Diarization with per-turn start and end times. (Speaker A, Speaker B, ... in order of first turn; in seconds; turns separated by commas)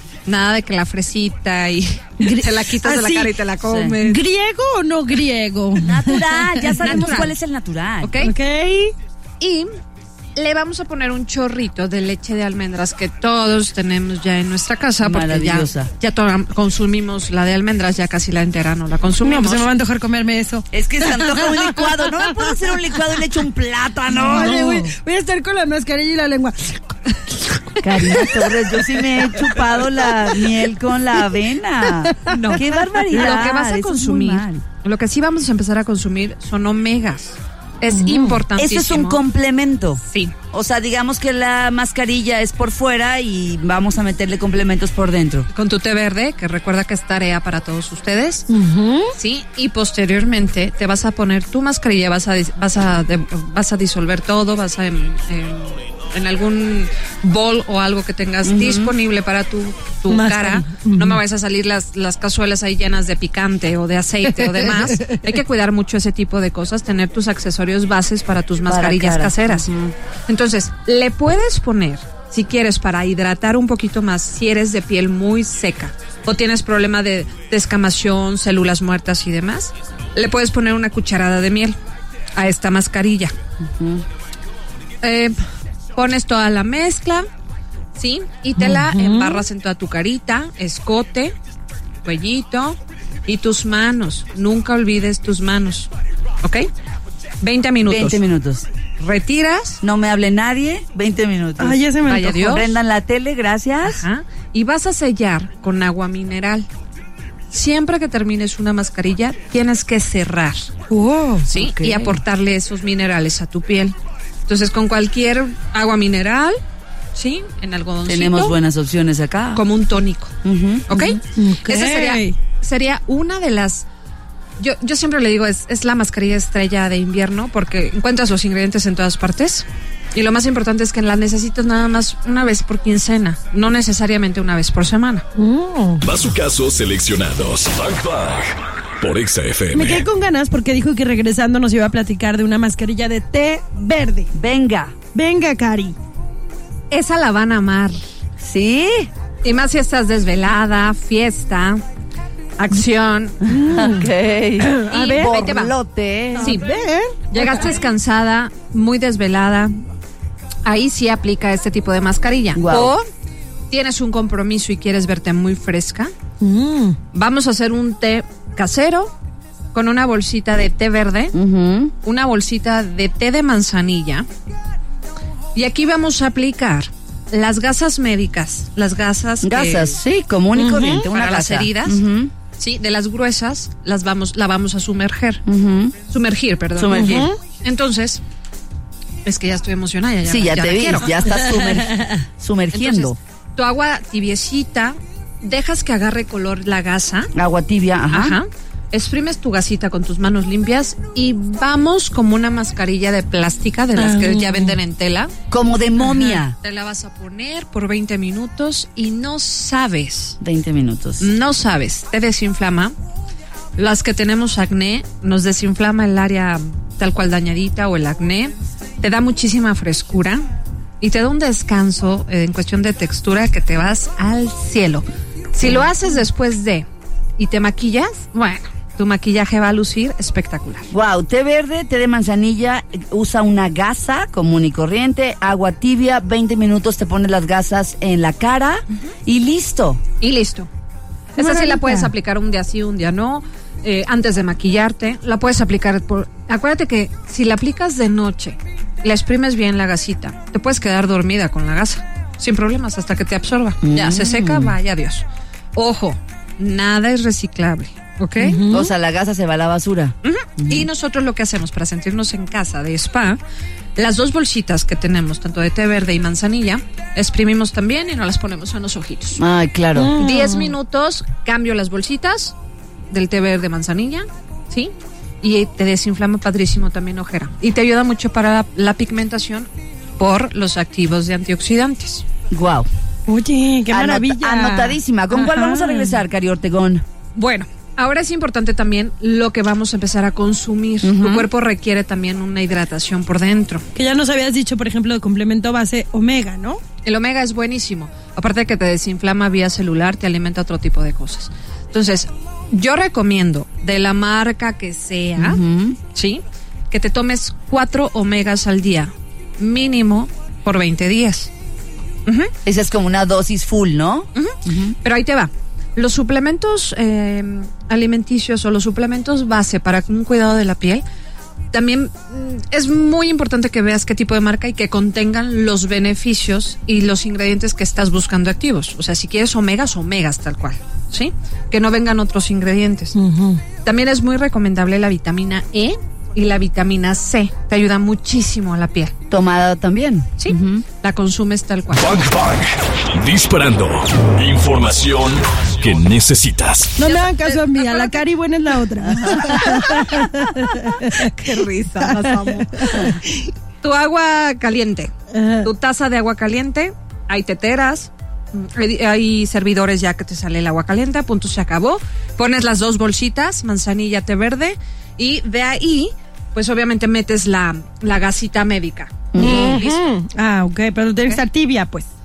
Speaker A: 0.2-4.2, Speaker B: 2.2-3.3, Speaker C: 3.6-4.0, Speaker B: 4.0-6.8, Speaker C: 5.8-8.2, Speaker A: 6.8-7.3, Speaker A: 8.0-8.3, Speaker B: 8.2-8.9, Speaker A: 9.4-9.7, Speaker A: 10.3-19.6, Speaker C: 15.0-15.9, Speaker B: 19.2-22.8, Speaker C: 20.7-24.9, Speaker B: 24.1-29.0, Speaker A: 24.3-24.8, Speaker C: 27.8-34.6, Speaker B: 31.8-32.4, Speaker A: 32.3-39.2, Speaker B: 37.9-38.4, Speaker C: 38.6-45.5, Speaker A: 40.0-40.3, Speaker A: 45.5-48.5, Speaker B: 48.5-49.1, Speaker A: 49.1-69.7, Speaker C: 58.4-58.9, Speaker B: 60.1-61.2, Speaker C: 68.7-69.9, Speaker A: 70.3-81.8, Speaker A: 82.3-83.3, Speaker C: 83.6-84.0, Speaker A: 85.0-85.3, Speaker A: 85.9-87.2, Speaker A: 88.0-91.3, Speaker B: 88.6-89.4, Speaker A: 92.0-95.9, Speaker A: 97.4-98.2, Speaker C: 97.9-98.7, Speaker A: 99.0-99.8, Speaker C: 99.8-104.0, Speaker B: 101.6-102.4, Speaker A: 102.0-102.8, Speaker A: 103.8-106.7, Speaker A: 107.5-110.7, Speaker B: 110.9-111.5, Speaker A: 111.5-114.0, Speaker C: 111.5-112.2, Speaker A: 114.5-116.6, Speaker A: 117.1-118.5, Speaker C: 118.0-119.6, Speaker A: 119.5-120.3, Speaker C: 120.4-121.1, Speaker A: 120.9-123.9, Speaker B: 120.9-122.3, Speaker A: 124.6-135.2, Speaker B: 135.4-136.1, Speaker D: 136.0-140.1, Speaker B: 139.7-144.3, Speaker C: 144.3-144.9, Speaker B: 145.1-145.9, Speaker A: 146.9-148.0, Speaker C: 148.4-149.1, Speaker A: 149.4-151.8, Speaker A: 152.6-153.4, Speaker B: 153.4-155.5, Speaker C: 153.5-156.6, Speaker A: 154.9-155.7, Speaker B: 156.4-157.5, Speaker A: 156.4-156.7, Speaker A: 157.3-159.8, Speaker A: 160.6-163.0, Speaker C: 162.5-162.9, Speaker A: 163.7-166.1, Speaker B: 166.4-167.0, Speaker A: 167.1-169.1, Speaker A: 169.7-171.3, Speaker C: 171.3-171.9, Speaker A: 172.0-174.3, Speaker A: 175.5-180.0, Speaker C: 179.4-182.3, Speaker B: 180.5-181.1, Speaker A: 181.1-182.0, Speaker A: 182.6-185.4, Speaker C: 185.4-185.9, Speaker A: 186.1-188.2, Speaker C: 186.8-187.3, Speaker B: 186.9-187.4, Speaker A: 189.2-191.7, Speaker C: 190.2-193.2, Speaker A: 192.7-197.3, Speaker C: 197.3-198.4, Speaker A: 198.1-205.3, Speaker B: 204.0-204.8, Speaker C: 205.5-206.5, Speaker A: 206.0-210.4, Speaker C: 210.4-211.3, Speaker A: 211.2-212.9, Speaker A: 213.8-220.5, Speaker A: 221.0-226.8, Speaker A: 227.4-230.9, Speaker C: 230.9-240.0, Speaker A: 240.2-240.7, Speaker A: 241.3-258.6, Speaker B: 241.4-242.1, Speaker C: 253.8-254.7, Speaker B: 258.4-258.9, Speaker C: 258.6-260.9, Speaker A: 260.2-263.4, Speaker A: 263.9-269.4, Speaker C: 269.4-270.1, Speaker B: 269.9-270.7, Speaker A: 270.1-272.5, Speaker A: 273.1-282.2, Speaker C: 282.5-282.9, Speaker B: 283.3-286.2, Speaker C: 283.9-287.0, Speaker A: 287.3-293.8, Speaker C: 291.0-291.5, Speaker B: 293.9-296.8, Speaker A: 297.0-305.6, Speaker C: 305.4-306.0, Speaker A: 306.1-311.5, Speaker A: 312.3-312.5, Speaker C: 312.6-314.9, Speaker A: 314.3-321.0, Speaker A: 321.7-333.1, Speaker B: 333.1-333.6, Speaker A: 333.8-339.1, Speaker C: 339.3-340.8, Speaker A: 340.4-342.3, Speaker D: 341.9-347.0, Speaker B: 347.0-351.2, Speaker A: 347.0-348.2, Speaker A: 349.5-350.2, Speaker A: 351.0-353.1, Speaker B: 352.0-353.5, Speaker A: 353.8-370.0, Speaker B: 355.3-355.7, Speaker C: 369.3-369.8, Speaker B: 369.4-372.1